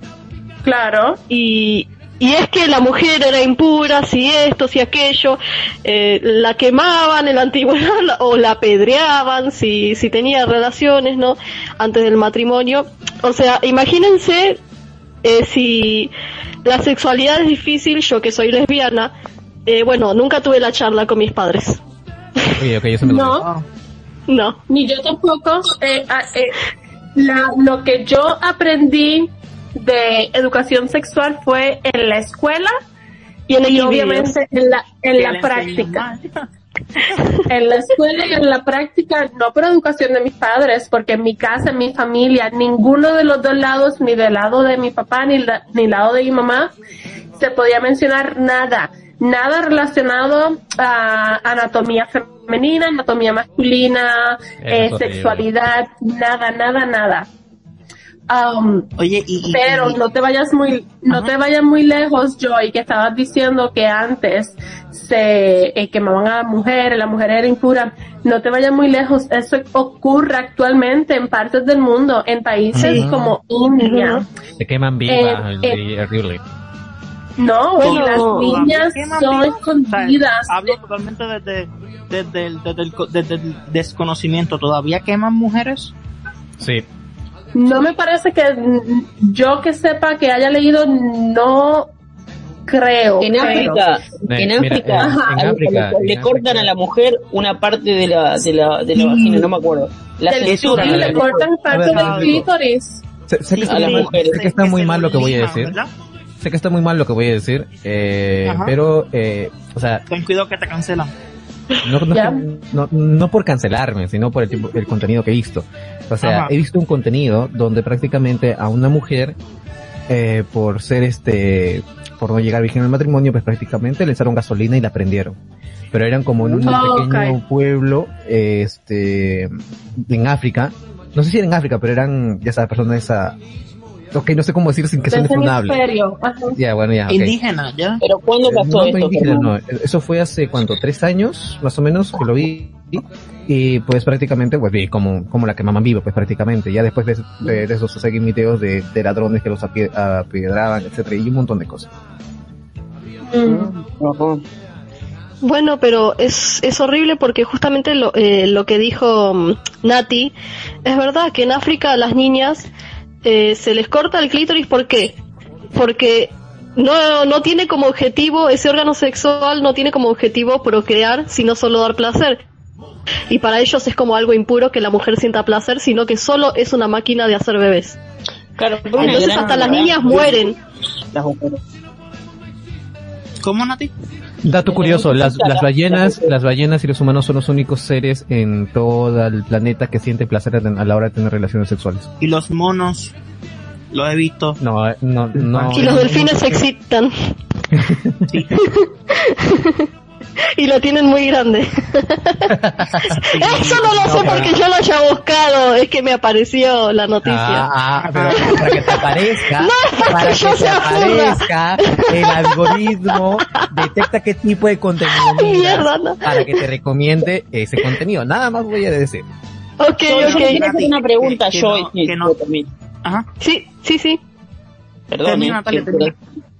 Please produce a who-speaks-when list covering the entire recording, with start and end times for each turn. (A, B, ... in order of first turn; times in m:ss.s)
0:00.6-0:01.2 A
0:01.3-0:14.6 B
0:15.2-0:16.1 B
0:16.6-0:19.1 B
0:19.6-0:21.8 B
0:22.5-0:23.4 C
0:23.0-0:23.4 A
0:24.3-0:24.6 B
0:24.7-0:26.6 A
0:27.2-0:32.7 A
0:33.5-0:34.4 B
0:33.6-0:36.0 A
0:35.2-0:36.3 D
0:37.5-0:46.7 A
0:47.4-0:57.3 A
0:54.6-0:55.4 C
0:58.3-0:58.9 A
0:59.0-1:00.0 D
0:59.5-1:14.2 A
1:12.7-1:13.4 C
1:12.8-1:13.0 B
1:13.8-1:14.2 B
1:14.6-1:16.4 C
1:15.1-1:15.8 A
1:17.4-1:20.6 A
1:17.8-1:18.6 B
1:17.8-1:25.9 D
1:26.6-1:26.8 C
1:27.5-1:31.9 A
1:32.7-1:33.8 A
1:33.2-1:41.4 E
1:34.3-1:36.7 C
1:35.0-1:35.4 A
1:38.9-1:39.5 D
1:40.3-1:43.0 A
1:40.5-1:42.4 D
1:40.8-1:42.4 C
1:43.3-1:45.8 C
1:43.5-1:45.9 D
1:43.6-1:44.5 E
1:46.4-1:50.0 C
1:48.4-1:48.7 D
1:50.1-1:51.1 D
1:51.8-1:59.4 C
1:52.1-1:52.4 A
1:56.2-1:56.5 D
2:00.1-2:05.4 C
2:05.9-2:13.4 C
2:06.6-2:07.4 A
2:14.1-2:15.8 C
2:15.1-2:16.6 A
2:16.6-2:17.4 C
2:17.1-2:18.0 D
2:18.0-2:19.5 E
2:18.4-2:31.9 C
2:33.3-2:33.7 A
2:33.4-2:34.4 E
2:35.4-2:40.3 B
2:40.8-2:42.7 B
2:43.2-2:45.2 B
2:45.7-2:52.4 B
2:53.3-2:58.0 B
2:58.6-3:00.4 E
2:58.9-3:00.3 D
2:59.0-3:00.6 B
3:01.1-3:01.6 E
3:03.4-3:03.9 D
3:04.4-3:12.1 C
3:04.6-3:06.3 E
3:12.2-3:13.1 D
3:13.9-3:14.6 D
3:14.6-3:16.6 C
3:15.4-3:16.2 D
3:15.7-3:17.3 B
3:17.7-3:18.3 C
3:18.3-3:18.6 D
3:18.6-3:19.9 B
3:20.6-3:27.7 B
3:22.5-3:23.2 C
3:23.2-3:24.5 D
3:24.0-3:24.5 C
3:27.2-3:39.3 C
3:28.0-3:28.9 D
3:28.3-3:29.0 B
3:29.5-3:33.9 B
3:35.0-3:36.6 B
3:39.8-3:40.6 B
3:40.0-3:42.7 E
3:40.1-3:42.3 D
3:43.4-3:44.2 B
3:45.1-3:46.1 E
3:45.2-3:46.1 D